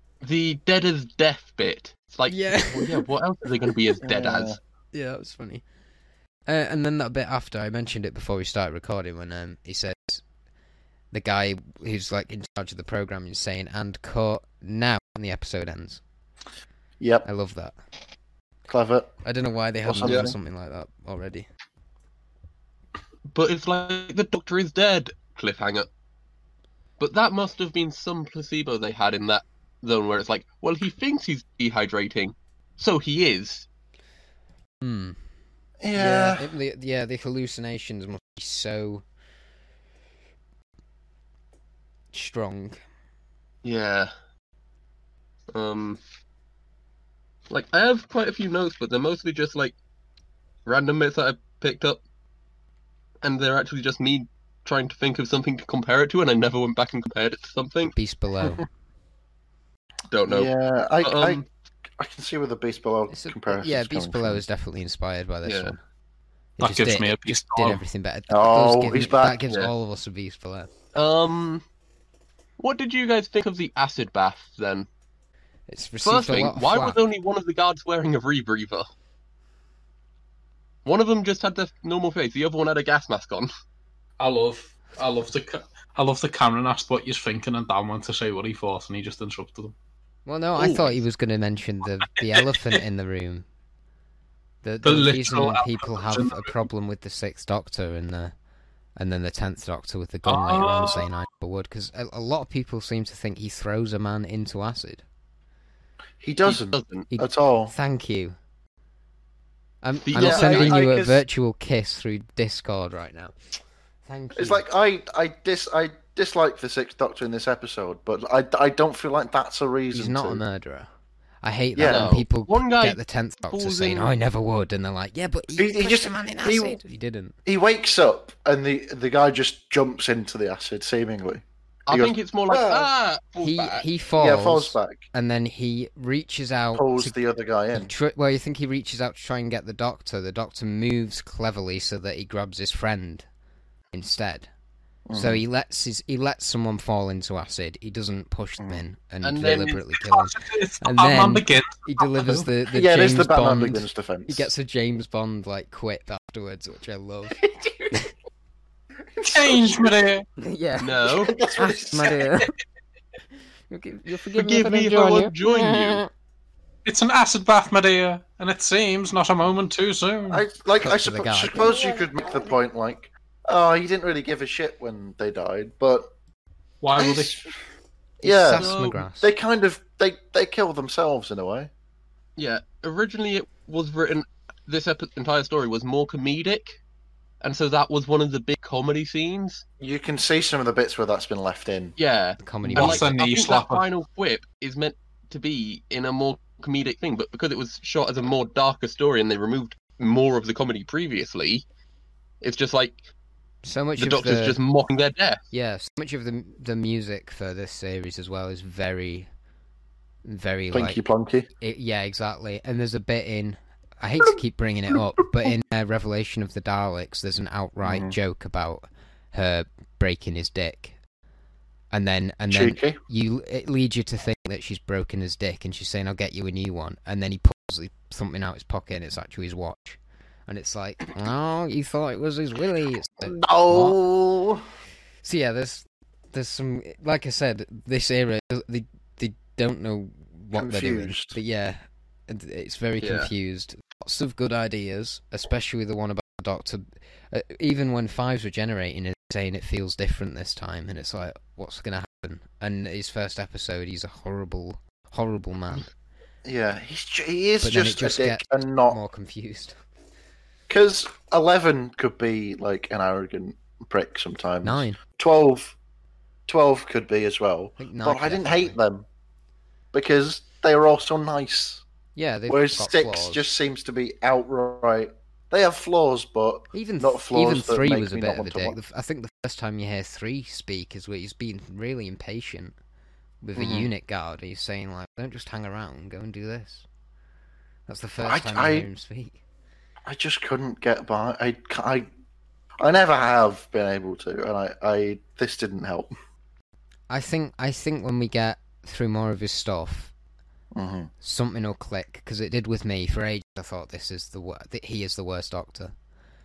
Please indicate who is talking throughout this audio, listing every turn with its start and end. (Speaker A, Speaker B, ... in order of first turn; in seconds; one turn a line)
Speaker A: 0.2-4.6
Speaker B: 2.3-3.0
Speaker C: 4.0-4.6
Speaker B: 4.9-5.6
Speaker B: 6.5-10.2
Speaker B: 11.1-16.0
Speaker C: 17.0-17.3
Speaker B: 17.2-17.8
Speaker C: 18.7-19.1
Speaker B: 19.2-21.5
Speaker C: 19.8-20.3
Speaker A: 20.0-20.3
Speaker A: 23.3-25.9
Speaker A: 27.0-33.6
Speaker B: 34.8-35.2
Speaker C: 35.8-36.5
Speaker B: 35.9-39.0
Speaker B: 42.1-42.8
Speaker A: 43.6-44.1
Speaker A: 45.5-46.0
Speaker A: 47.5-49.7
Speaker A: 50.6-52.0
Speaker A: 53.2-57.9
Speaker B: 57.9-58.7
Speaker A: 60.1-61.5
Speaker C: 60.3-61.4
Speaker C: 62.0-64.4
Speaker B: 63.1-65.8
Speaker A: 65.4-65.7
Speaker B: 66.6-70.7
Speaker D: 66.6-67.8
Speaker C: 68.3-69.4
Speaker A: 70.9-71.6
Speaker A: 72.6-74.9
Speaker B: 75.7-77.0
Speaker A: 76.0-78.9
Speaker A: 80.8-83.5
Speaker D: 84.2-89.7
Speaker B: 90.2-93.4
Speaker A: 90.5-91.0
Speaker B: 94.6-98.3
Speaker D: 94.8-96.5
Speaker B: 99.0-105.0
Speaker D: 100.2-101.1
Speaker C: 106.2-107.7
Speaker A: 106.4-107.1
Speaker B: 107.1-108.3
Speaker B: 109.8-113.3
Speaker A: 110.0-110.8
Speaker C: 110.1-111.2
Speaker B: 114.0-114.6
Speaker C: 114.3-120.4
Speaker B: 119.9-120.9
Speaker B: 121.4-127.3
Speaker C: 121.8-122.1
Speaker A: 121.8-124.1
Speaker C: 125.5-126.8
Speaker C: 127.5-132.9
Speaker A: 131.9-133.8
Speaker B: 133.4-137.2
Speaker C: 134.2-135.0
Speaker C: 136.7-137.9
Speaker B: 137.7-143.2
Speaker B: 143.9-144.5
Speaker C: 145.1-145.4
Speaker B: 145.1-157.4
Speaker A: 149.2-149.8
Speaker D: 150.0-152.5
Speaker C: 152.7-154.5
Speaker C: 157.4-157.9
Speaker C: 159.2-159.9
Speaker D: 159.2-160.2
Speaker B: 160.4-162.5
Speaker A: 160.8-161.3
Speaker C: 161.0-162.2
Speaker B: 163.7-166.1
Speaker A: 164.3-166.0
Speaker D: 166.8-170.4
Speaker C: 170.3-176.1
Speaker B: 170.8-171.8
Speaker D: 176.8-177.4
Speaker C: 176.9-177.5
Speaker C: 178.2-181.7
Speaker B: 178.2-179.3
Speaker A: 178.5-179.0
Speaker A: 182.4-186.8
Speaker A: 187.4-189.6
Speaker C: 189.8-191.9
Speaker A: 192.0-201.6
Speaker B: 192.4-193.1
Speaker D: 192.7-193.8
Speaker A: 202.4-203.0
Speaker B: 203.6-204.6
Speaker A: 204.0-205.4
Speaker B: 205.5-209.3
Speaker B: 210.2-211.0
Speaker C: 210.7-211.5
Speaker B: 211.6-220.9
Speaker C: 217.8-218.2
Speaker B: 221.9-234.0
Speaker C: 222.5-223.0
Speaker C: 233.2-234.6
Speaker B: 235.2-255.9
Speaker C: 240.5-241.4
Speaker A: 243.0-243.3
Speaker C: 256.4-259.0
Speaker B: 257.6-259.8
Speaker C: 260.7-265.7
Speaker B: 264.6-265.0
Speaker C: 266.5-269.1
Speaker B: 267.8-268.8
Speaker C: 269.9-271.8
Speaker B: 272.1-273.4
Speaker C: 272.5-278.8
Speaker B: 276.7-282.7
Speaker B: 283.4-286.8
Speaker C: 283.6-283.9
Speaker B: 287.9-289.4
Speaker C: 288.2-288.9
Speaker C: 290.1-292.1
Speaker C: 292.8-296.1
Speaker B: 297.1-300.1
Speaker C: 300.7-301.1
Speaker B: 301.2-305.9